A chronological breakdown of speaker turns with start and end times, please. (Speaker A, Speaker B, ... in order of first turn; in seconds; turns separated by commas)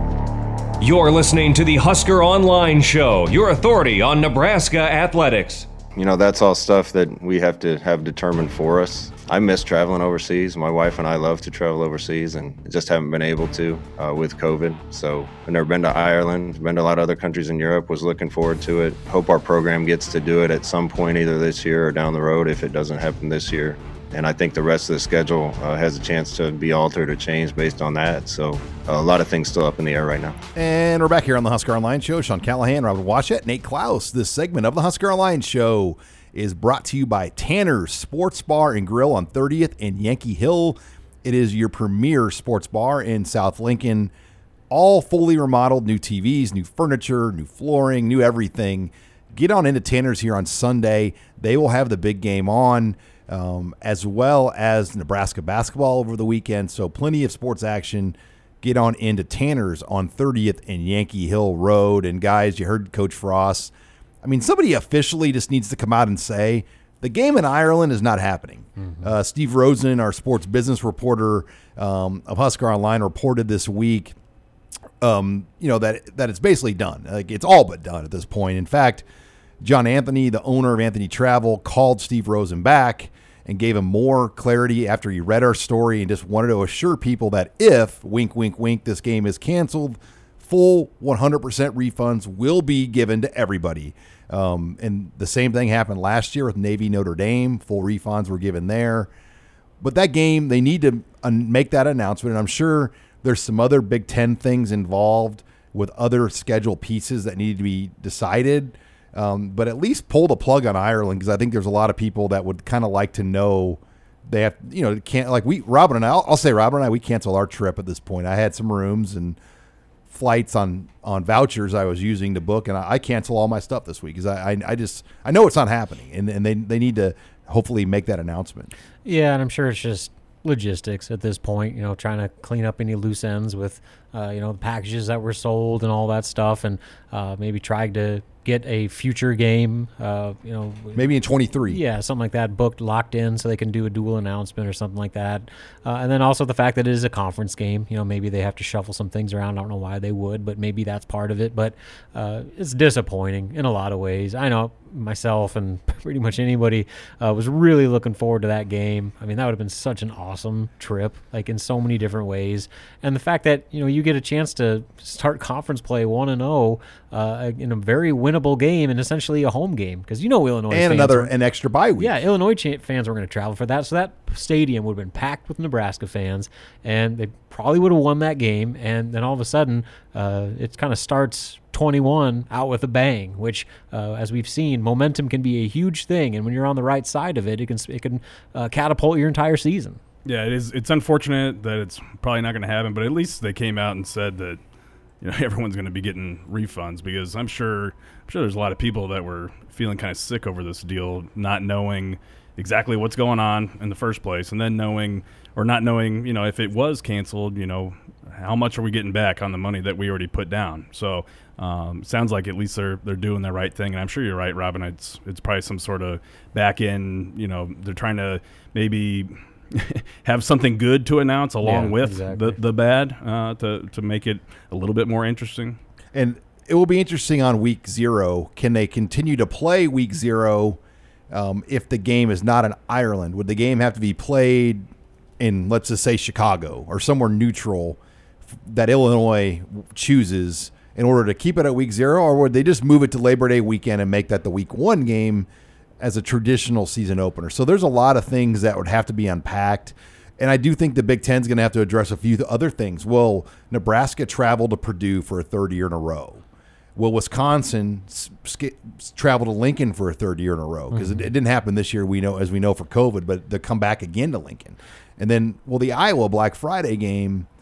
Speaker A: 0.8-5.7, Speaker B: 6.0-30.4, Speaker C: 30.6-44.1, Speaker C: 44.7-63.7, Speaker C: 64.2-74.2, Speaker D: 68.8-69.1, Speaker C: 75.0-79.0, Speaker C: 79.6-99.1, Speaker C: 99.8-119.4, Speaker C: 120.1-128.7, Speaker D: 129.1-141.1, Speaker C: 141.0-141.8, Speaker D: 141.7-171.3, Speaker C: 170.7-172.2, Speaker D: 172.0-190.0, Speaker E: 190.2-194.6, Speaker E: 195.2-225.8, Speaker D: 221.6-222.6, Speaker C: 226.1-230.8, Speaker C: 231.3-234.9, Speaker C: 235.4-238.0, Speaker C: 238.6-245.5, Speaker C: 246.0-256.4, Speaker C: 257.0-267.5, Speaker D: 260.9-261.3